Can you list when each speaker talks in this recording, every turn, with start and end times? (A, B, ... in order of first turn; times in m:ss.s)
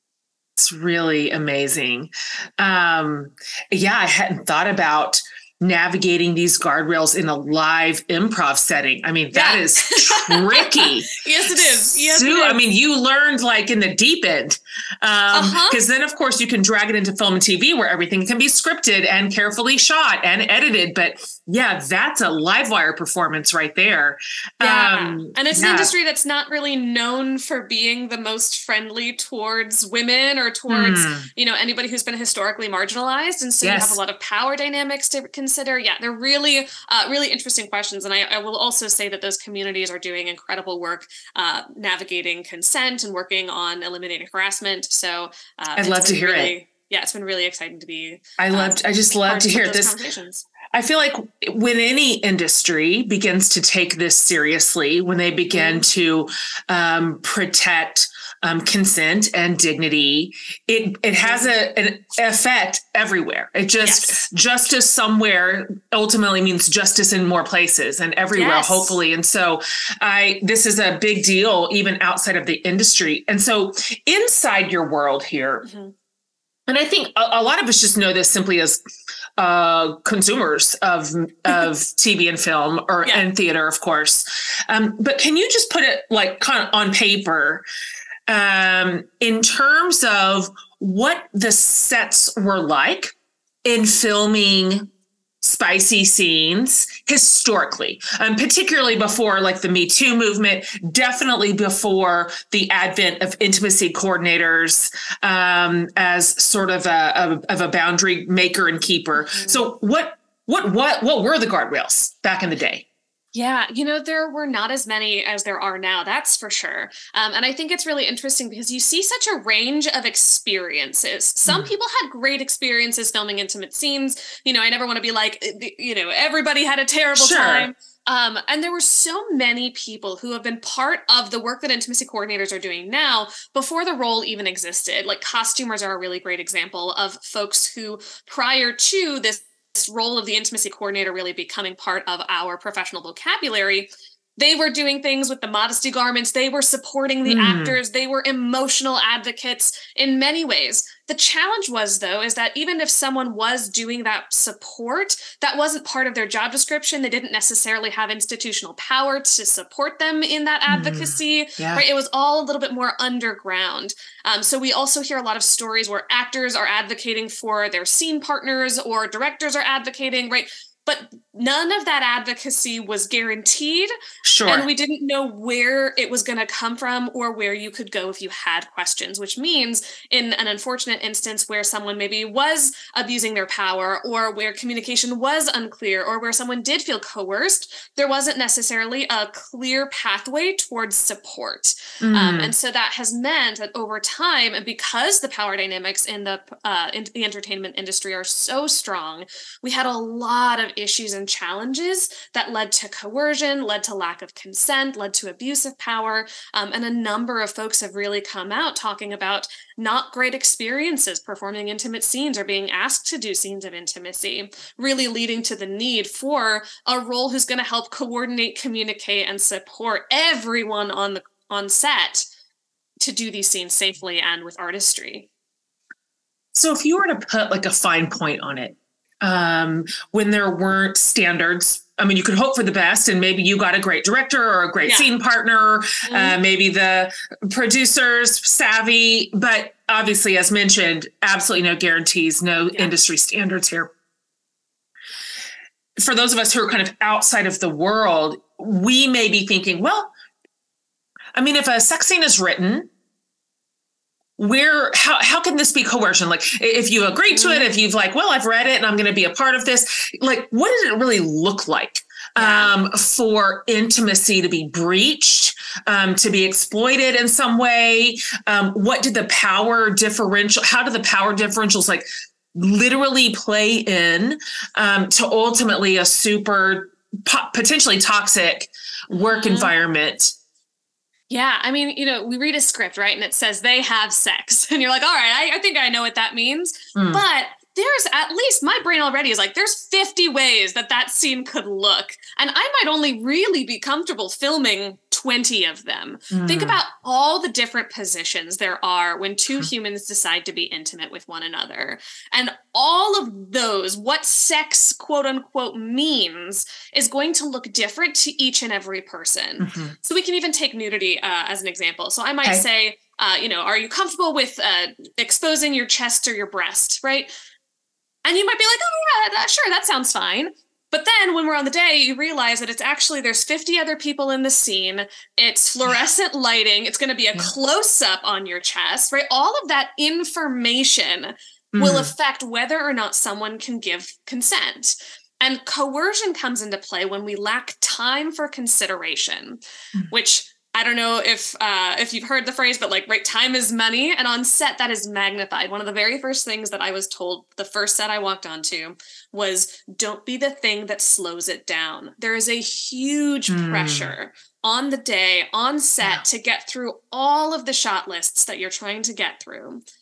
0:00.6-0:25.9 A
0:09.3-0:12.6 B
0:15.3-0:15.8 B
0:24.6-0:50.5 B
0:30.7-0:31.3 A
0:33.6-0:34.0 A
0:45.8-0:46.5 A
0:48.4-0:50.0 A
0:50.7-1:15.7 A
0:55.5-0:55.8 B
1:01.2-1:01.6 B
1:03.8-1:04.2 B
1:08.3-1:09.0 B
1:15.6-1:15.9 B
1:16.7-1:18.8 A
1:19.4-1:27.6 A
1:28.3-1:33.1 A
1:33.6-1:34.9 A
1:35.4-1:52.9 A
1:49.2-1:49.6 B
1:53.3-2:53.9 B
2:07.2-2:07.7 A
2:27.2-2:27.8 A
2:40.7-2:41.8 A
2:54.2-2:54.7 A
2:54.5-3:42.2 B
3:12.0-3:12.5 A
3:43.0-3:45.3 B
3:46.6-4:03.9 A
3:54.8-3:55.1 B
3:56.1-3:56.4 B
4:06.0-4:10.1 A
4:11.4-4:12.9 A
4:14.4-4:40.3 A
4:17.3-4:17.8 B
4:22.4-4:22.7 B
4:39.1-4:39.7 B
4:41.3-5:17.3 B
4:47.0-4:47.2 A
4:56.3-4:56.8 A
5:09.6-5:10.0 A
5:18.2-5:59.8 B
5:31.7-5:32.1 A
5:53.5-5:54.2 A